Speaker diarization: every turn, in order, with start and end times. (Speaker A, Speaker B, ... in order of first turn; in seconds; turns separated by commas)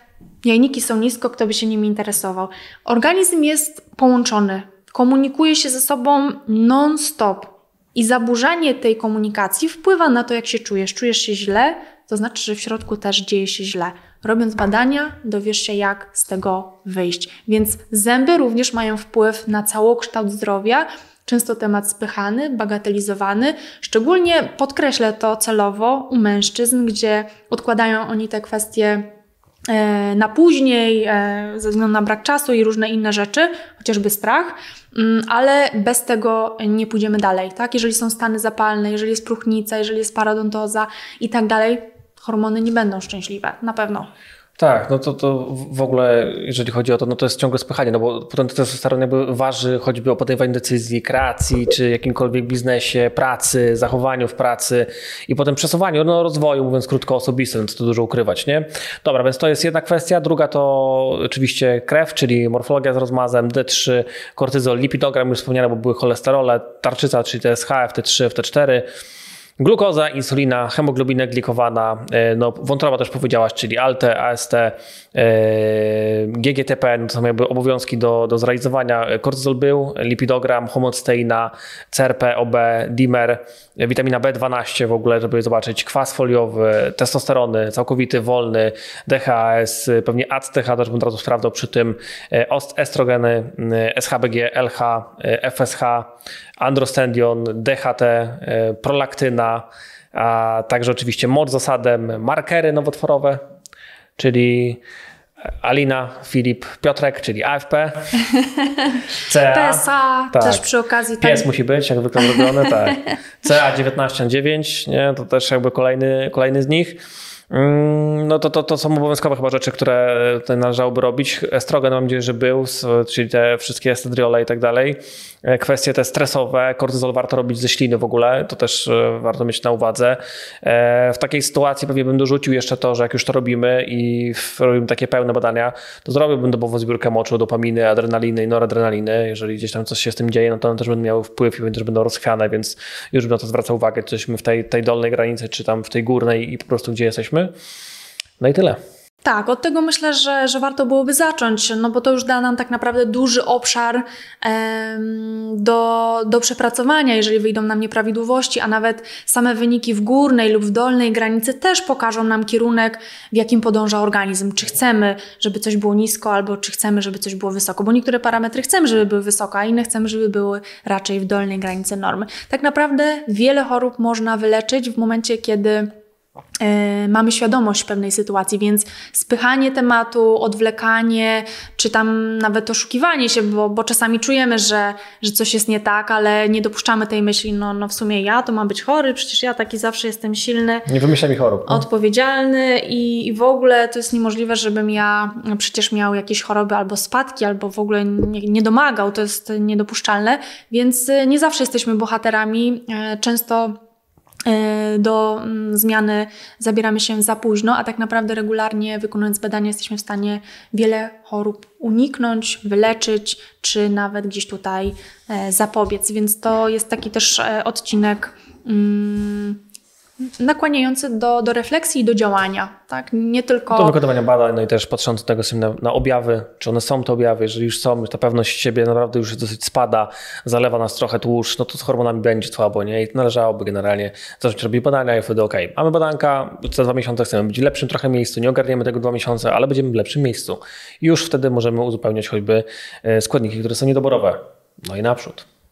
Speaker A: 0.4-29.1, Speaker A: 29.7-44.1, Speaker B: 44.6-68.9, Speaker B: 69.6-103.4, Speaker B: 104.2-104.8, Speaker B: 105.6-108.0, Speaker A: 108.3-111.5, Speaker B: 109.2-110.7, Speaker B: 111.2-117.0, Speaker A: 112.2-112.7, Speaker B: 117.5-147.5, Speaker B: 148.4-148.8, Speaker A: 149.2-175.9, Speaker A: 176.6-190.9, Speaker B: 190.9-191.8, Speaker A: 191.7-203.8, Speaker A: 204.5-219.6, Speaker A: 220.4-223.9, Speaker B: 223.7-245.5